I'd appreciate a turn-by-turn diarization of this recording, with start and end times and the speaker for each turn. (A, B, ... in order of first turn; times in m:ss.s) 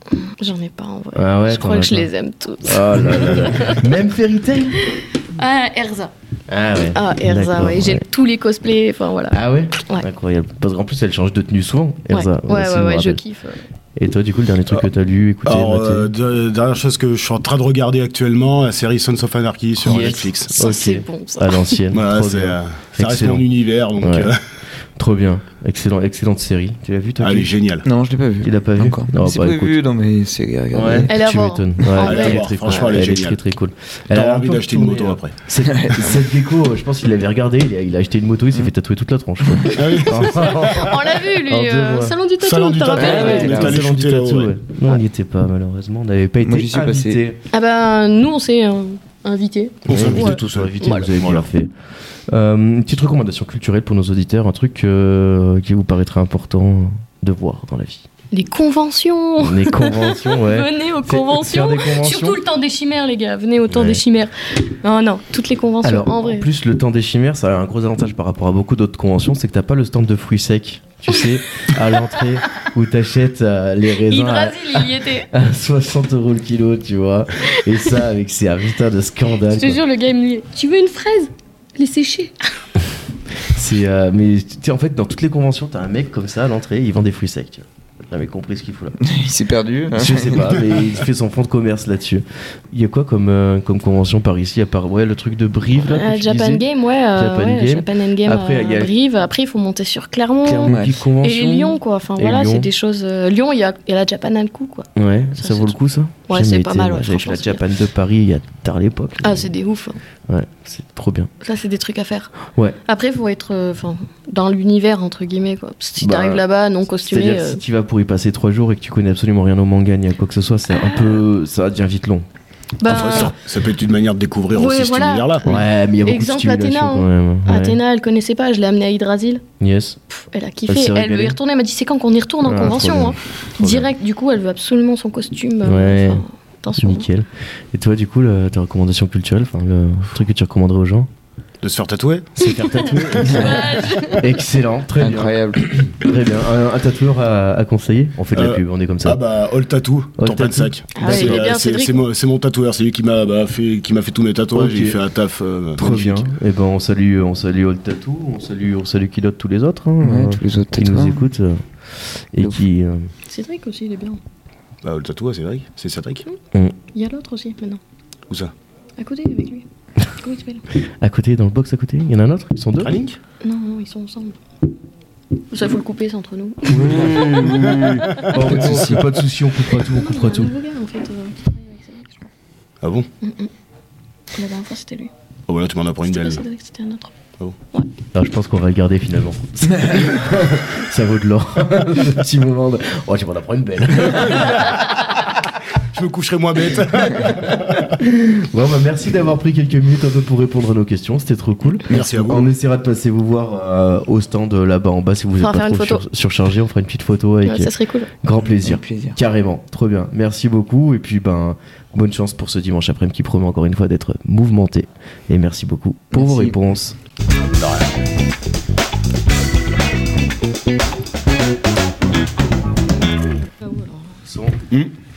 0:00.1-0:03.9 A
0:01.1-0:02.1 B
0:02.6-0:04.8 B
0:04.8-0:06.1 A
0:06.5-0:08.0 B
0:06.9-0:10.1 A
0:09.3-0:13.2 B
0:12.1-0:13.6 A
0:14.0-0:16.1 B
0:15.4-0:20.5 C
0:19.8-0:23.4 B
0:20.5-0:21.8 A
0:21.9-0:24.4 C
0:24.0-0:24.3 B
0:25.0-0:27.5 B
0:27.2-0:27.8 C
0:27.8-0:31.1 D
0:28.4-0:29.8 B
0:30.7-0:42.2 B
0:31.1-0:33.1 A
0:32.0-0:33.4 C
0:34.1-0:35.4 C
0:35.6-0:36.2 D
0:39.5-0:39.8 D
0:39.7-0:40.6 C
0:40.2-0:43.8 A
0:42.4-0:44.6 C
0:42.9-0:43.9 D
0:43.2-0:47.4 B
0:46.4-0:47.2 D
0:47.5-0:51.1 A
0:49.8-0:51.5 C
0:49.8-0:51.7 B
0:52.3-0:58.0 B
0:58.3-1:06.5 A
0:59.4-1:02.4 B
1:03.7-1:04.0 B
1:05.8-1:19.8 B
1:14.0-1:15.3 A
1:19.5-1:22.5 A
1:23.5-1:29.0 B
1:29.0-1:30.8 D
1:29.9-1:38.9 B
1:35.8-1:47.6 A
1:40.4-1:42.7 B
1:40.6-1:41.0 D
1:45.0-1:49.5 B
1:49.2-1:50.0 A
1:50.3-1:51.3 B
1:51.4-1:52.3 A
1:52.8-1:57.6 A
1:56.0-1:56.4 B
1:57.0-2:02.2 B
2:00.7-2:01.2 A
2:02.8-2:03.4 A
2:02.8-2:05.6 C
2:04.5-2:09.4 A
2:05.4-2:07.8 B
2:09.6-2:10.0 B
2:10.1-2:17.1 A
2:10.7-2:11.4 B
2:12.4-2:13.9 B
2:15.6-2:16.2 B
2:16.8-2:21.1 B
2:21.6-2:22.3 C
2:22.4-2:29.2 B
2:23.2-2:24.3 A
2:25.0-2:25.6 D
2:28.3-2:36.3 C
2:30.2-2:31.4 B
2:30.9-2:32.0 A
2:34.5-2:35.0 B
2:35.8-2:43.1 B
2:40.0-2:41.3 D
2:43.3-2:44.2 A
2:44.8-2:46.2 C
2:46.9-2:47.8 A
2:49.0-2:50.6 A
2:51.0-2:53.0 B
2:52.8-2:53.2 C
2:53.4-2:54.4 A
2:55.5-2:58.4 A
2:56.7-3:00.5 B
2:56.9-2:59.1 D
2:59.7-3:02.3 A
3:02.8-3:03.1 C
3:03.2-3:03.5 A
3:04.3-3:05.1 A
3:05.5-3:06.4 C
3:06.0-3:07.1 A
3:08.1-3:14.8 B
3:15.8-3:17.9 C
3:17.3-3:37.0 B
3:21.9-3:22.5 C
3:21.9-3:22.2 D
3:25.4-3:26.0 A
3:27.4-3:28.1 A
3:28.6-3:29.2 D
3:36.1-3:36.6 D
3:37.6-3:37.9 C
3:43.6-3:44.2 A
3:44.2-3:44.6 B